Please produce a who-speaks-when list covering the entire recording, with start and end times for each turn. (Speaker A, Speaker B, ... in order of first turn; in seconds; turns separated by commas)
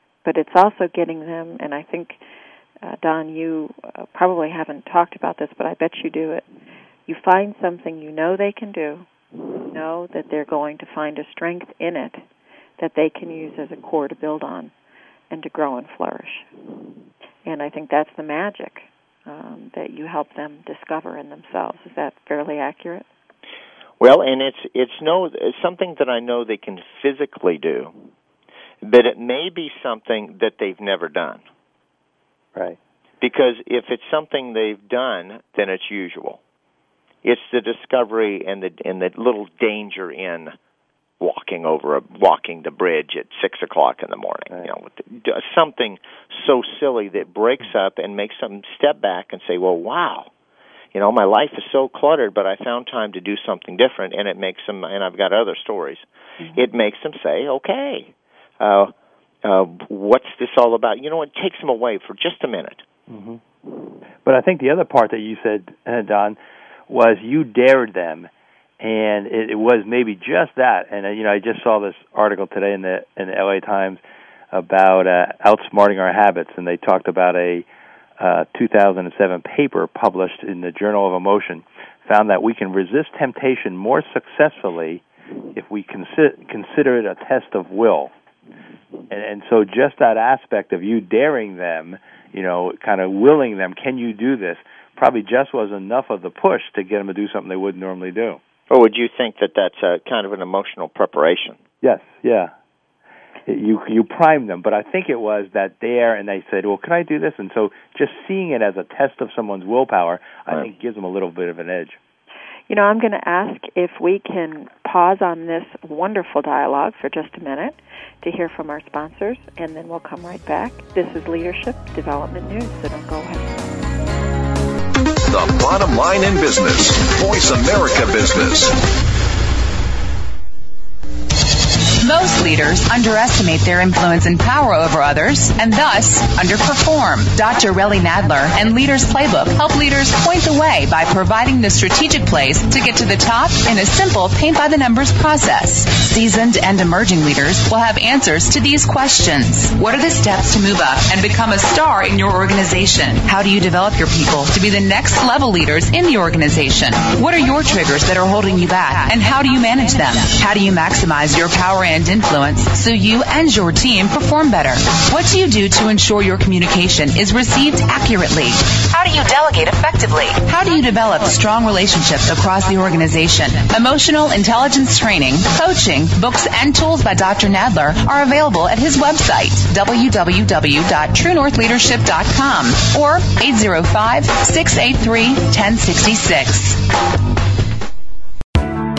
Speaker A: 0.2-2.2, Speaker A: 2.8-6.5, Speaker A: 7.1-9.1, Speaker A: 9.7-12.2, Speaker A: 12.8-14.7, Speaker A: 15.3-16.5, Speaker A: 17.4-23.1, Speaker B: 24.0-27.9, Speaker B: 28.8-31.4, Speaker B: 33.2-36.4, Speaker B: 37.2-40.5, Speaker B: 41.2-50.3, Speaker B: 50.9-58.9, Speaker B: 59.4-62.8, Speaker C: 63.1-63.4, Speaker C: 64.2-66.4, Speaker C: 66.9-74.0, Speaker C: 74.5-77.7, Speaker C: 78.2-85.0, Speaker C: 85.5-88.1, Speaker C: 89.1-98.4, Speaker B: 98.7-101.6, Speaker C: 101.8-102.5, Speaker C: 103.5-112.0, Speaker A: 112.7-123.6, Speaker D: 125.2-128.8, Speaker E: 131.9-186.8